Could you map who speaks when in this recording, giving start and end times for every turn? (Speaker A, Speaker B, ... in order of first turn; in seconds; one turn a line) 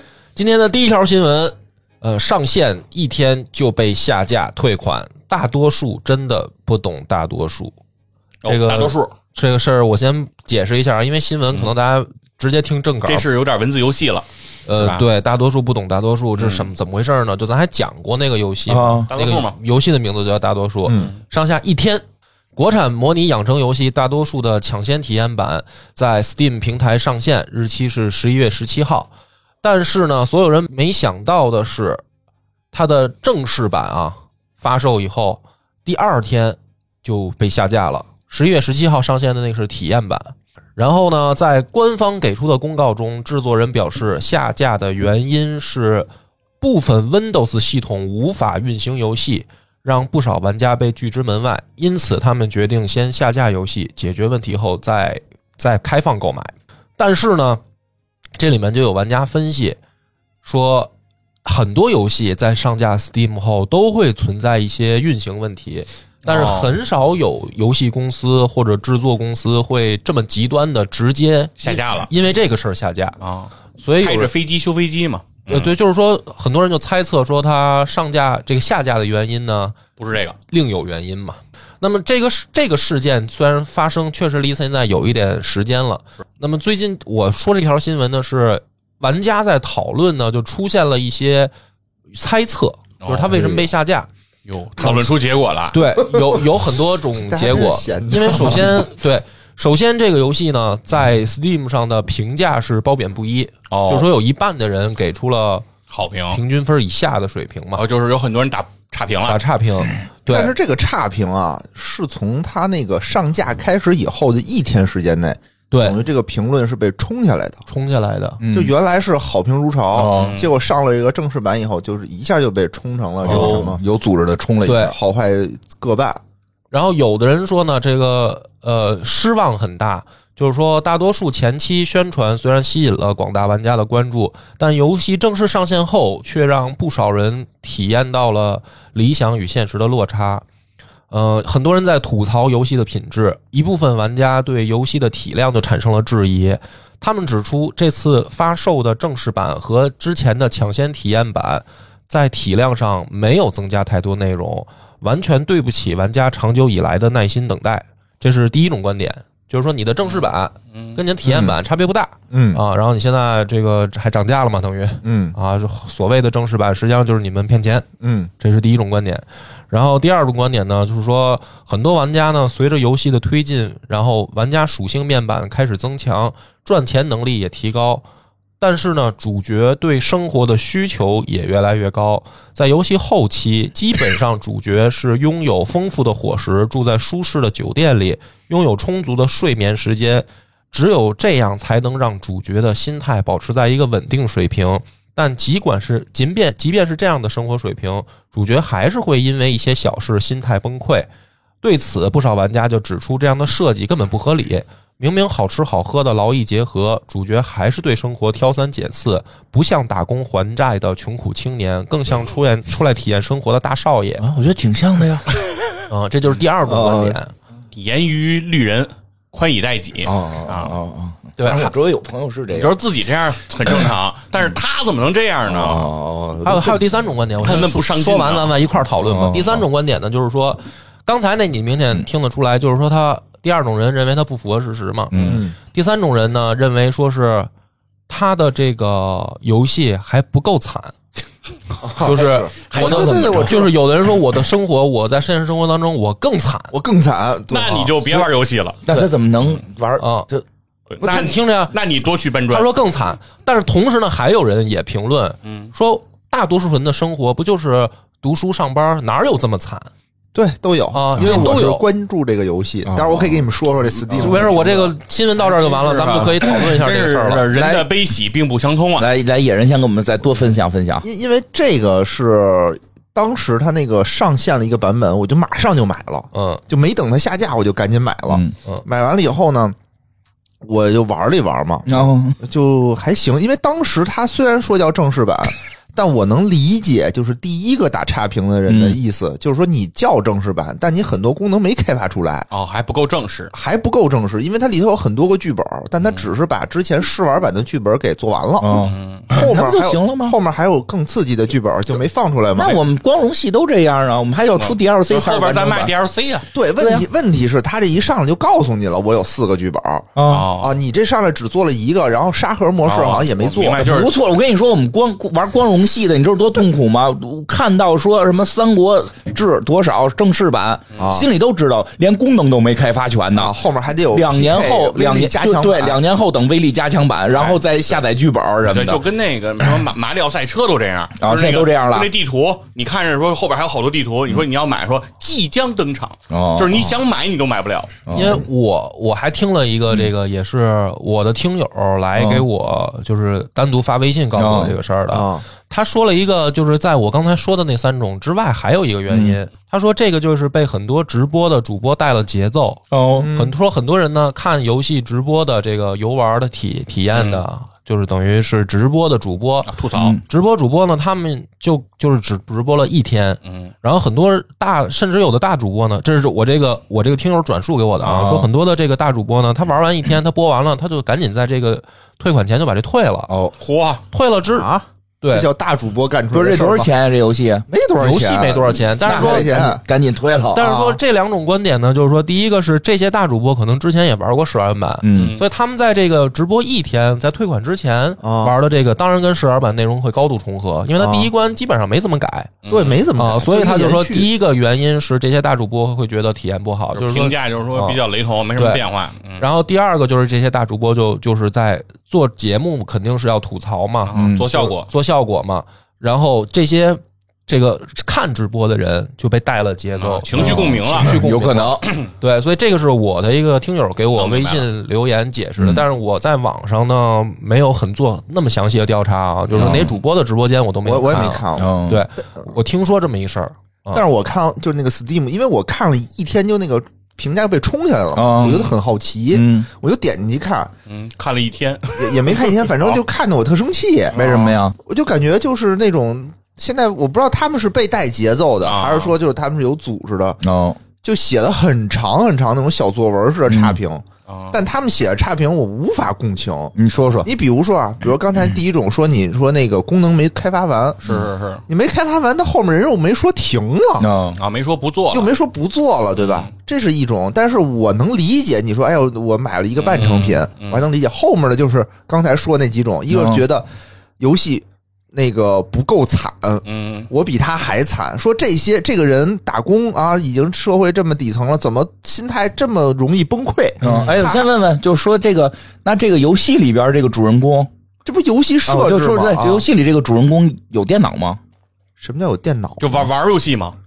Speaker A: 0.3-7.7
Speaker B: 8.4-9.1
Speaker A: 8.4-13.2
Speaker B: 13.1-14.2
Speaker A: 14.7-22.0
Speaker B: 14.8-15.0
Speaker B: 16.4-16.7
Speaker C: 18.7-19.1
Speaker B: 19.1-19.5
Speaker D: 20.9-21.1
Speaker A: 22.6-29.1
Speaker A: 29.6-32.0
Speaker A: 32.7-46.1
Speaker A: 46.6-57.6
Speaker A: 58.4-59.8
Speaker A: 60.4-60.9
Speaker A: 61.4-73.2
Speaker B: 66.2-66.7
Speaker B: 71.6-72.1
Speaker B: 73.2-75.7
Speaker A: 73.8-74.3
Speaker A: 75.5-79.8
Speaker B: 80.0-80.3
Speaker A: 80.5-91.5
Speaker A: 92.1-94.1
Speaker B: 93.0-93.6
Speaker B: 94.5-95.8
Speaker A: 94.8-95.1
Speaker A: 95.7-105.7
Speaker D: 97.2-98.9
Speaker B: 103.7-104.1
Speaker B: 105.9-106.4
Speaker A: 106.3-107.8
Speaker B: 107.8-109.4
Speaker A: 109.3-110.5
Speaker D: 110.3-117.6
Speaker A: 115.7-116.0
Speaker A: 117.7-118.4
Speaker C: 118.4-118.7
Speaker D: 118.5-123.8
Speaker C: 119.9-120.4
Speaker B: 120.1-120.5
Speaker C: 123.2-125.0
Speaker A: 123.3-123.6
Speaker A: 124.6-124.9
Speaker D: 124.9-126.2
Speaker A: 126.7-140.4
Speaker A: 141.1-167.9
Speaker D: 161.2-161.6
Speaker D: 162.3-162.6
Speaker D: 165.0-165.3
Speaker D: 168.0-168.3
Speaker A: 168.4-178.0
Speaker A: 178.6-201.1
Speaker A: 201.6-214.2
Speaker C: 214.2-215.3
Speaker A: 215.9-217.3
Speaker D: 216.7-217.2
Speaker B: 217.7-220.7
Speaker C: 220.0-222.8
Speaker A: 221.4-221.7
Speaker B: 222.5-225.9
Speaker C: 225.5-227.1
Speaker A: 226.4-237.5
Speaker B: 227.4-228.6
Speaker C: 229.0-229.6
Speaker C: 235.1-235.4
Speaker D: 235.2-235.5
Speaker A: 238.1-240.9
Speaker D: 241.8-243.7
Speaker C: 242.0-243.7
Speaker A: 242.0-246.7
Speaker D: 246.7-248.0
Speaker B: 247.5-248.8
Speaker C: 248.8-250.4
Speaker A: 250.0-250.3
Speaker B: 250.9-252.7
Speaker A: 251.0-251.7
Speaker A: 252.5-259.9
Speaker B: 255.4-255.7
Speaker D: 260.3-264.9
Speaker A: 260.9-261.9
Speaker C: 262.9-263.4
Speaker C: 264.1-264.6
Speaker A: 264.1-267.5
Speaker B: 265.4-269.1
Speaker C: 267.5-267.9
Speaker C: 269.0-271.0
Speaker D: 271.0-279.8
Speaker A: 276.3-276.6
Speaker C: 278.3-278.5
Speaker D: 280.6-292.5
Speaker C: 281.9-282.4
Speaker C: 288.7-289.0
Speaker B: 292.5-293.5
Speaker D: 293.5-298.8
Speaker C: 298.6-300.4
Speaker B: 298.8-299.2
Speaker D: 299.3-302.8
Speaker C: 302.5-305.9
Speaker B: 304.6-306.5
Speaker D: 306.5-313.9
Speaker C: 306.8-307.1
Speaker C: 310.1-310.5
Speaker B: 310.3-310.8
Speaker B: 312.8-314.1
Speaker C: 313.7-323.6
Speaker D: 321.0-321.3
Speaker D: 323.3-326.0
Speaker C: 324.1-329.0
Speaker B: 328.6-338.0
Speaker C: 331.2-332.1
Speaker C: 336.3-337.0
Speaker C: 338.1-338.4
Speaker A: 338.1-373.3
Speaker C: 342.1-342.4
Speaker C: 344.4-344.7
Speaker D: 345.1-345.4
Speaker C: 349.1-349.4
Speaker C: 352.9-353.3
Speaker D: 353.2-353.5
Speaker B: 357.1-357.4
Speaker B: 359.7-360.1
Speaker C: 359.9-360.2
Speaker B: 363.4-363.7
Speaker B: 368.0-368.5
Speaker C: 373.3-373.5
Speaker B: 373.6-374.0
Speaker A: 374.1-374.7
Speaker D: 374.6-376.9
Speaker A: 375.2-375.5
Speaker C: 376.3-377.7
Speaker D: 377.7-379.8
Speaker A: 378.0-379.7
Speaker C: 379.0-380.8
Speaker A: 380.5-392.5
Speaker D: 380.6-381.0
Speaker C: 385.0-385.4
Speaker B: 385.1-385.4
Speaker D: 388.2-388.6
Speaker D: 391.0-391.3
Speaker B: 392.6-393.0
Speaker D: 392.7-394.3
Speaker A: 393.1-398.0
Speaker B: 396.9-399.4
Speaker A: 398.6-398.8
Speaker A: 399.4-424.0
Speaker B: 404.1-404.9
Speaker C: 404.1-404.5
Speaker B: 410.0-411.1
Speaker C: 410.3-411.9
Speaker B: 414.1-414.6
Speaker C: 415.6-415.8
Speaker C: 419.5-419.9
Speaker D: 420.8-421.8
Speaker C: 421.6-422.1
Speaker D: 423.9-430.7
Speaker C: 428.1-428.7
Speaker B: 428.4-428.7
Speaker C: 429.3-429.7
Speaker B: 430.9-433.0
Speaker D: 431.9-434.2
Speaker B: 434.1-434.6
Speaker C: 434.1-434.8
Speaker D: 434.7-440.4
Speaker B: 438.6-439.1
Speaker C: 440.4-440.8
Speaker D: 441.0-451.0
Speaker C: 443.5-443.8
Speaker B: 444.3-444.6
Speaker C: 446.7-447.3
Speaker B: 451.0-451.6
Speaker D: 451.7-454.1
Speaker C: 454.0-454.4
Speaker B: 454.4-455.3
Speaker D: 455.1-474.5
Speaker B: 456.2-456.5
Speaker B: 459.8-460.8
Speaker C: 463.1-463.4
Speaker B: 466.6-467.1
Speaker C: 473.8-477.7
Speaker D: 478.0-479.6
Speaker C: 478.6-481.4
Speaker D: 482.0-483.1
Speaker B: 482.8-483.8